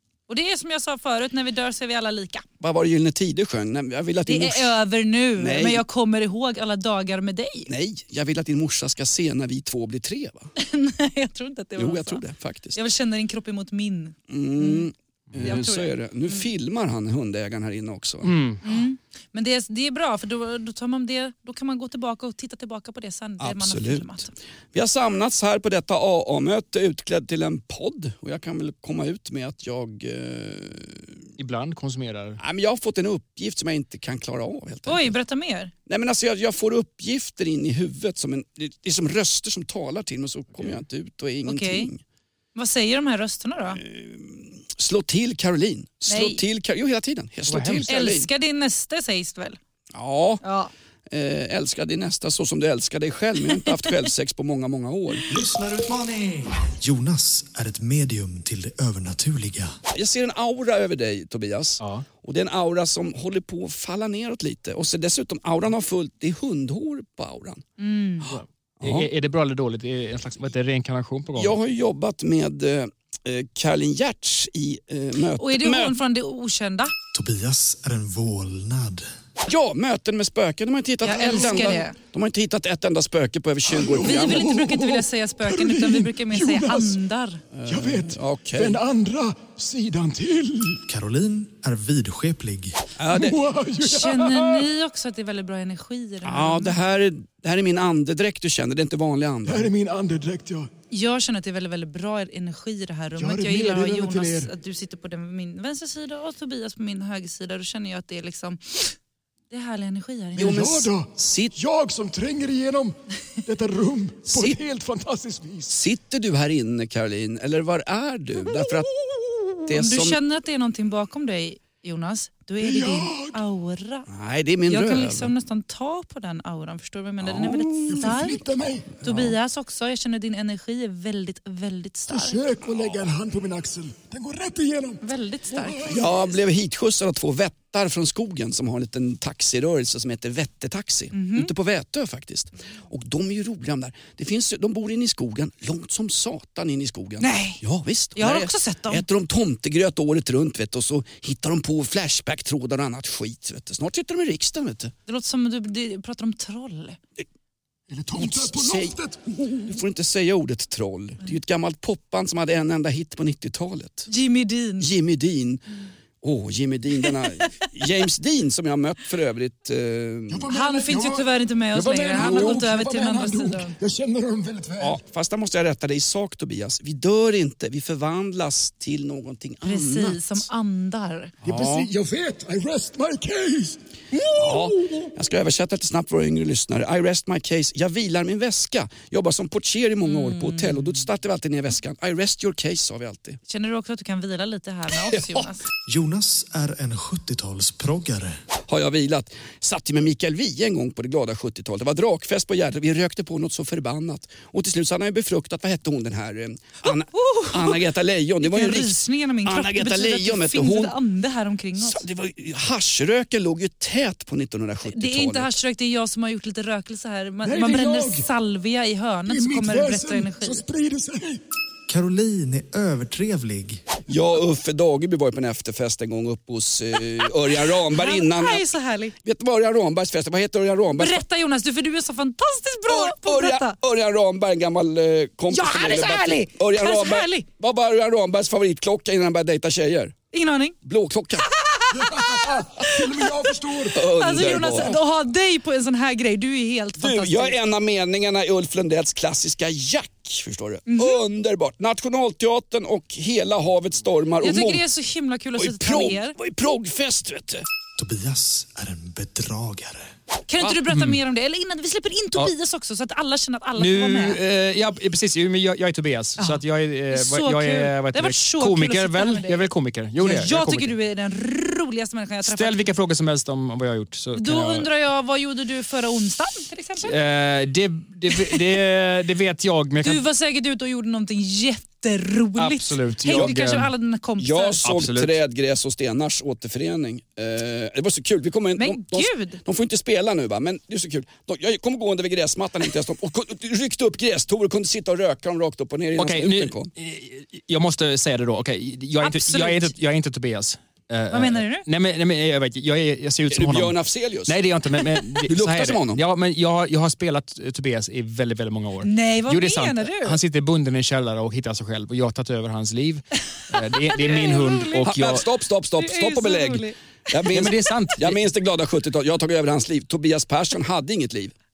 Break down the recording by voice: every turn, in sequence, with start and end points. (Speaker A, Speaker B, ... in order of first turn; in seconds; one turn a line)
Speaker A: 0.3-2.5
Speaker B: 2.6-4.8
Speaker A: 4.3-7.7
Speaker B: 5.4-5.8
Speaker B: 7.7-10.5
Speaker A: 10.6-12.2
Speaker B: 11.8-12.8
Speaker A: 12.8-14.9
Speaker B: 14.3-18.4
Speaker C: 15.3-15.6
Speaker A: 15.4-16.5
Speaker C: 18.2-18.6
Speaker A: 18.6-24.3
Speaker B: 23.4-24.2
Speaker B: 24.7-31.1
Speaker C: 31.4-32.4
Speaker B: 32.4-35.1
Speaker A: 34.9-35.7
Speaker B: 35.9-42.0
Speaker A: 41.5-41.9
Speaker A: 42.5-43.8
Speaker B: 43.8-48.3
Speaker A: 46.1-46.4
Speaker C: 47.5-47.9
Speaker A: 47.9-49.6
Speaker B: 49.9-50.4
Speaker A: 50.4-50.7
Speaker B: 51.1-55.3
Speaker D: 55.3-59.8
Speaker B: 59.9-67.6
Speaker C: 61.8-62.1
Speaker A: 67.8-68.3
Speaker B: 68.3-69.1
Speaker C: 68.3-71.6
Speaker B: 71.4-76.0
Speaker A: 75.4-76.9
Speaker D: 77.1-79.1
Speaker B: 79.5-84.5
Speaker A: 81.0-82.0
Speaker E: 81.1-81.8
Speaker E: 83.7-87.0
Speaker A: 84.0-87.4
Speaker B: 87.5-88.8
Speaker E: 87.7-90.8
Speaker D: 90.9-92.8
Speaker B: 93.0-93.4
Speaker E: 93.1-94.7
Speaker A: 93.8-96.8
Speaker B: 96.2-99.7
Speaker E: 99.5-100.7
Speaker A: 100.9-108.9
Speaker E: 103.2-104.5
Speaker A: 109.5-110.7
Speaker E: 110.4-112.9
Speaker B: 110.4-111.5
Speaker E: 113.5-115.7
Speaker B: 114.3-114.6
Speaker B: 115.7-118.9
Speaker B: 119.7-120.2
Speaker A: 119.7-124.1
Speaker E: 122.6-123.4
Speaker B: 124.1-125.3
Speaker A: 124.7-128.4
Speaker B: 127.2-128.2
Speaker E: 127.9-129.0
Speaker B: 129.0-129.3
Speaker A: 129.0-132.4
Speaker E: 132.1-136.1
Speaker B: 132.6-133.0
Speaker A: 135.0-136.3
Speaker B: 135.9-154.9
Speaker A: 141.1-141.5
Speaker A: 147.2-147.6
Speaker A: 148.2-149.0
Speaker A: 155.1-157.0
Speaker E: 157.9-159.8
Speaker B: 158.2-159.0
Speaker B: 159.6-164.1
Speaker A: 164.1-164.9
Speaker B: 164.8-165.7
Speaker B: 166.2-170.5
Speaker E: 170.3-175.0
Speaker A: 170.5-173.8
Speaker B: 172.2-172.6
Speaker B: 174.8-180.5
Speaker A: 179.6-181.3
Speaker E: 181.4-185.1
Speaker C: 181.4-181.9
Speaker B: 184.4-193.4
Speaker A: 190.0-190.8
Speaker A: 193.5-195.6
Speaker D: 195.9-198.4
Speaker B: 198.7-210.9
Speaker A: 206.8-207.8
Speaker A: 208.4-212.0
Speaker B: 211.8-215.5
Speaker A: 214.9-220.6
Speaker E: 217.4-218.3
Speaker E: 219.3-221.4
Speaker D: 221.9-223.8
Speaker B: 224.1-228.6
Speaker A: 227.9-229.1
Speaker B: 229.2-231.2
Speaker A: 231.0-233.8
Speaker B: 232.9-240.2
Speaker A: 235.5-237.4
Speaker A: 240.3-240.8
Speaker B: 240.8-241.5
Speaker A: 241.4-247.6
Speaker E: 242.0-244.9
Speaker B: 243.9-245.0
Speaker B: 247.0-254.8
Speaker A: 250.9-251.2
Speaker A: 254.4-256.4
Speaker B: 255.6-257.7
Speaker D: 258.0-260.1
Speaker A: 260.5-264.4
Speaker C: 260.9-261.2
Speaker C: 263.8-270.9
Speaker A: 266.4-269.7
Speaker A: 270.2-272.8
Speaker C: 272.4-274.9
Speaker A: 274.4-277.1
Speaker C: 277.0-280.2
Speaker A: 278.3-278.6
Speaker A: 280.0-284.8
Speaker C: 282.6-283.9
Speaker B: 283.3-283.5
Speaker B: 284.4-296.9
Speaker C: 284.8-285.4
Speaker A: 288.8-289.6
Speaker C: 296.2-315.5
Speaker A: 299.2-299.9
Speaker A: 301.3-301.9
Speaker B: 303.5-304.6
Speaker B: 305.5-306.2
Speaker A: 309.0-310.4
Speaker A: 314.1-315.1
Speaker B: 315.1-321.6
Speaker A: 316.0-317.0
Speaker C: 317.5-318.5